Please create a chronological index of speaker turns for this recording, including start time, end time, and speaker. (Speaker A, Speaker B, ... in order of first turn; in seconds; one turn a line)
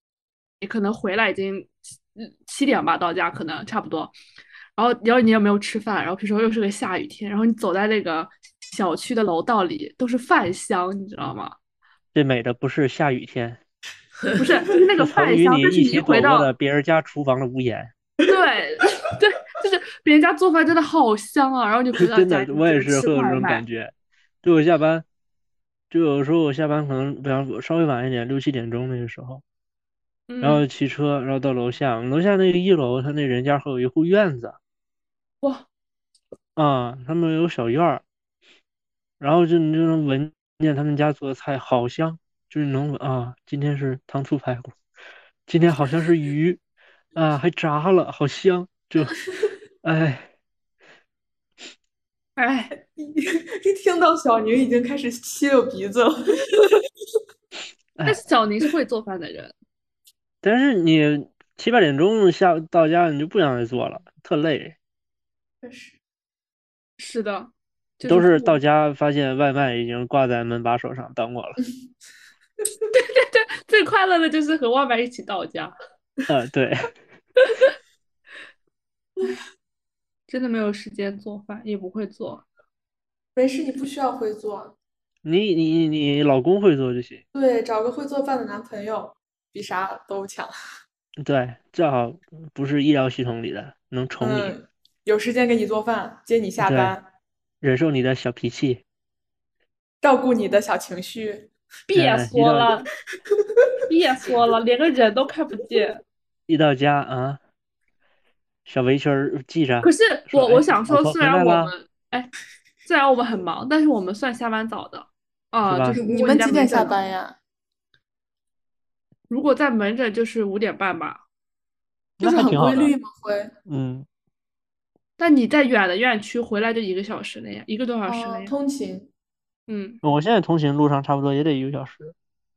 Speaker A: 0.6-4.1
Speaker A: 4.8-11.6
Speaker B: 12.1-13.6
Speaker A: 14.4-16.5
Speaker B: 15.0-17.9
Speaker A: 18.3-23.6
Speaker B: 22.0-25.1
Speaker B: 25.9-29.4
Speaker A: 30.3-30.6
Speaker B: 30.4-34.6
Speaker B: 36.6-38.0
Speaker B: 39.2-44.8
Speaker B: 45.5-46.6
Speaker B: 47.1-49.2
Speaker B: 49.8-50.3
Speaker A: 52.4-52.7
Speaker C: 52.8-56.8
Speaker B: 58.0-58.2
Speaker A: 58.1-59.5
Speaker B: 60.4-64.8
Speaker C: 65.6-66.0
Speaker A: 67.0-68.6
Speaker B: 68.0-71.6
Speaker A: 72.9-75.7
Speaker B: 76.3-76.9
Speaker A: 77.4-77.7
Speaker A: 80.3-82.5
Speaker C: 83.4-84.8
Speaker B: 85.2-87.2
Speaker C: 87.3-90.5
Speaker B: 91.2-94.6
Speaker C: 94.2-97.1
Speaker B: 96.6-97.0
Speaker B: 97.6-98.8
Speaker C: 100.0-101.5
Speaker A: 101.9-102.9
Speaker B: 102.0-102.8
Speaker A: 103.9-106.0
Speaker B: 106.5-107.4
Speaker B: 108.7-111.7
Speaker A: 109.8-112.3
Speaker A: 112.8-117.0
Speaker B: 115.7-116.0
Speaker C: 115.9-117.4
Speaker A: 119.3-121.2
Speaker B: 122.2-122.9
Speaker C: 122.2-123.5
Speaker B: 123.7-124.1
Speaker A: 125.2-128.5
Speaker C: 128.1-129.1
Speaker A: 129.7-130.0
Speaker B: 130.0-132.1